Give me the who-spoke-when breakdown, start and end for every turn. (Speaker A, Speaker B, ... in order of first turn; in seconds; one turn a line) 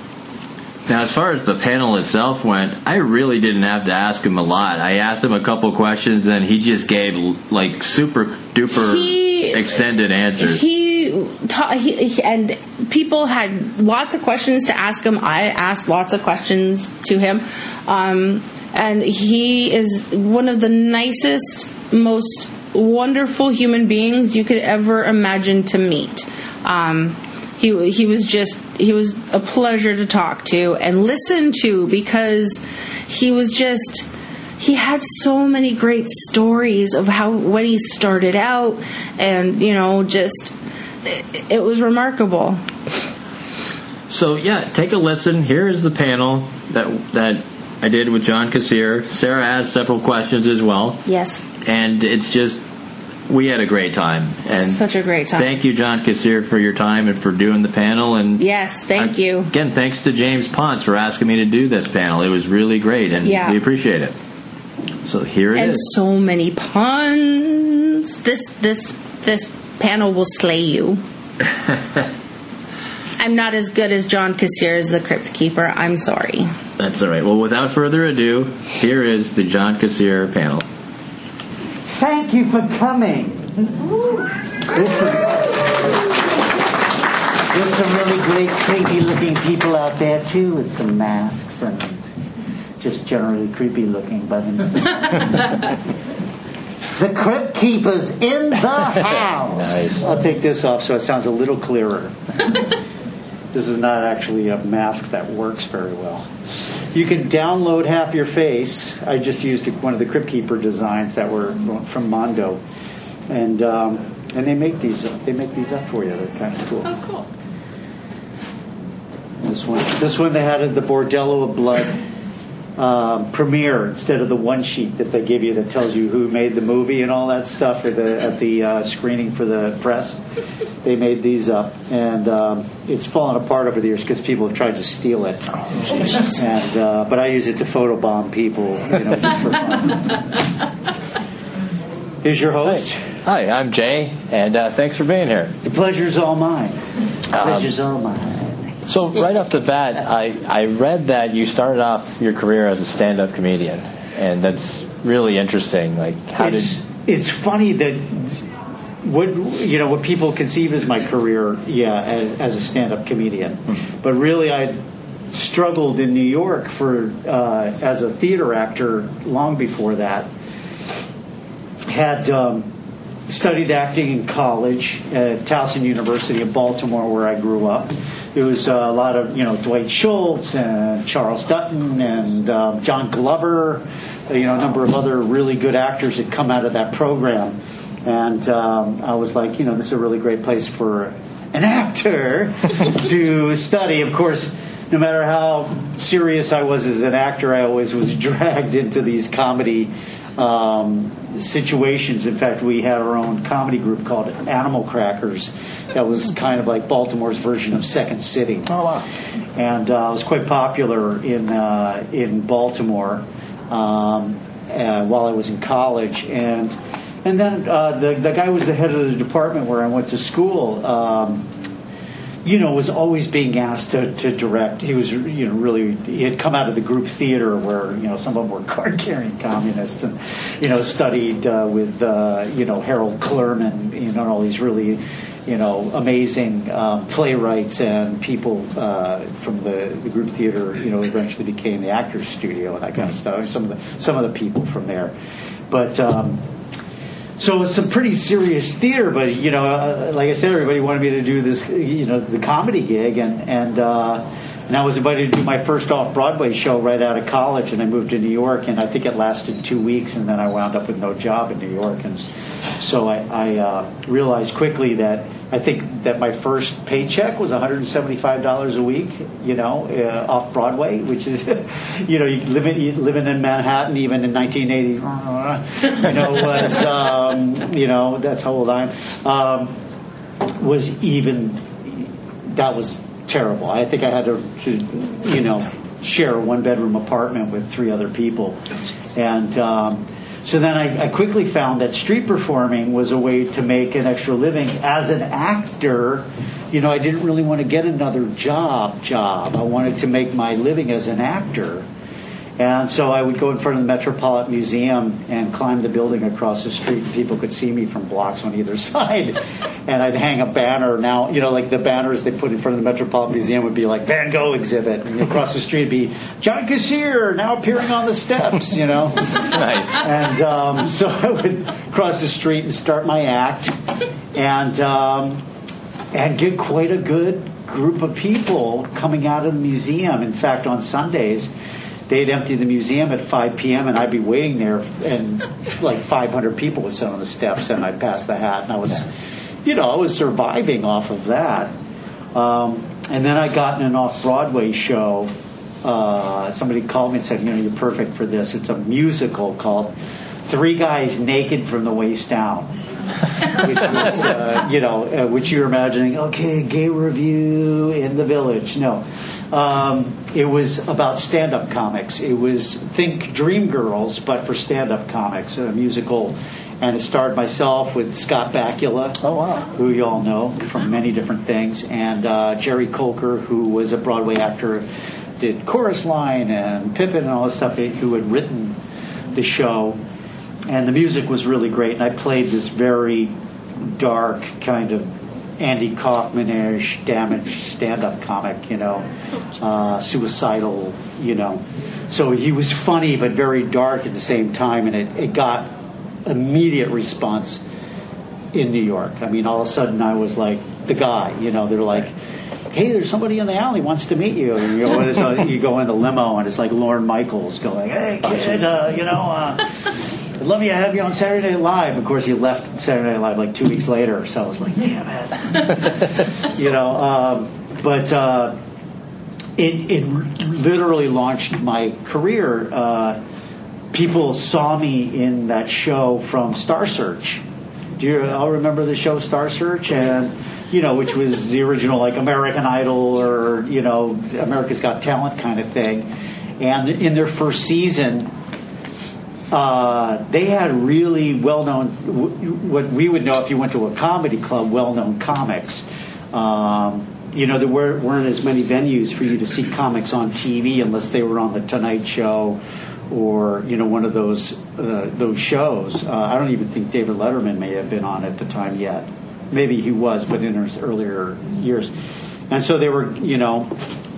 Speaker A: 0.9-10.6
Speaker B: 8.8-9.7
Speaker B: 10.4-34.1
Speaker B: 34.6-42.6
Speaker A: 44.1-51.0
Speaker B: 51.0-51.4
Speaker A: 51.6-52.6
Speaker A: 53.3-54.8
Speaker B: 54.5-55.5
Speaker A: 55.4-58.4
Speaker B: 58.4-59.5
Speaker A: 59.0-64.1
Speaker B: 63.2-63.6
Speaker A: 65.0-65.9
Speaker B: 65.5-71.0
Speaker B: 73.2-76.5
Speaker A: 76.8-80.6
Speaker C: 82.0-83.5
Speaker C: 84.7-86.0
Speaker C: 87.5-92.0
Speaker C: 92.8-95.4
Speaker C: 97.0-102.2
Speaker A: 99.6-100.0
Speaker C: 103.5-106.3
Speaker C: 106.9-112.6
Speaker C: 113.3-116.9
Speaker B: 116.8-117.3
Speaker C: 119.4-122.0
Speaker C: 122.8-130.2
Speaker C: 130.8-140.0
Speaker C: 142.2-143.0
Speaker A: 142.7-145.5
Speaker C: 145.6-146.8
Speaker A: 147.3-147.7
Speaker C: 147.4-148.6
Speaker A: 148.9-156.8
Speaker C: 156.4-158.3
Speaker C: 159.0-164.8
Speaker C: 165.3-170.3
Speaker C: 171.9-172.7
Speaker C: 173.3-208.7
Speaker A: 208.7-209.0
Speaker C: 209.6-221.4
Speaker C: 222.4-245.1
Speaker C: 245.7-246.4
Speaker C: 247.4-279.7
Speaker C: 280.6-288.6
Speaker C: 289.1-301.9
Speaker C: 302.6-323.8
Speaker A: 319.4-319.9
Speaker C: 324.3-325.4
Speaker C: 326.1-331.5
Speaker C: 332.1-339.1
Speaker C: 339.6-341.7
Speaker C: 342.4-345.3
Speaker C: 345.8-349.9
Speaker C: 350.5-352.7
Speaker C: 353.6-374.9
Speaker C: 375.4-378.8
Speaker C: 379.4-380.0
Speaker C: 380.7-383.3
Speaker C: 383.9-389.0
Speaker C: 389.6-395.7
Speaker C: 396.3-397.6
Speaker C: 398.5-402.1
Speaker C: 402.7-409.6
Speaker C: 410.4-418.5
Speaker C: 419.6-423.2
Speaker C: 423.9-427.4
Speaker C: 428.0-436.1
Speaker C: 436.6-438.3
Speaker C: 439.5-461.9
Speaker C: 462.5-463.7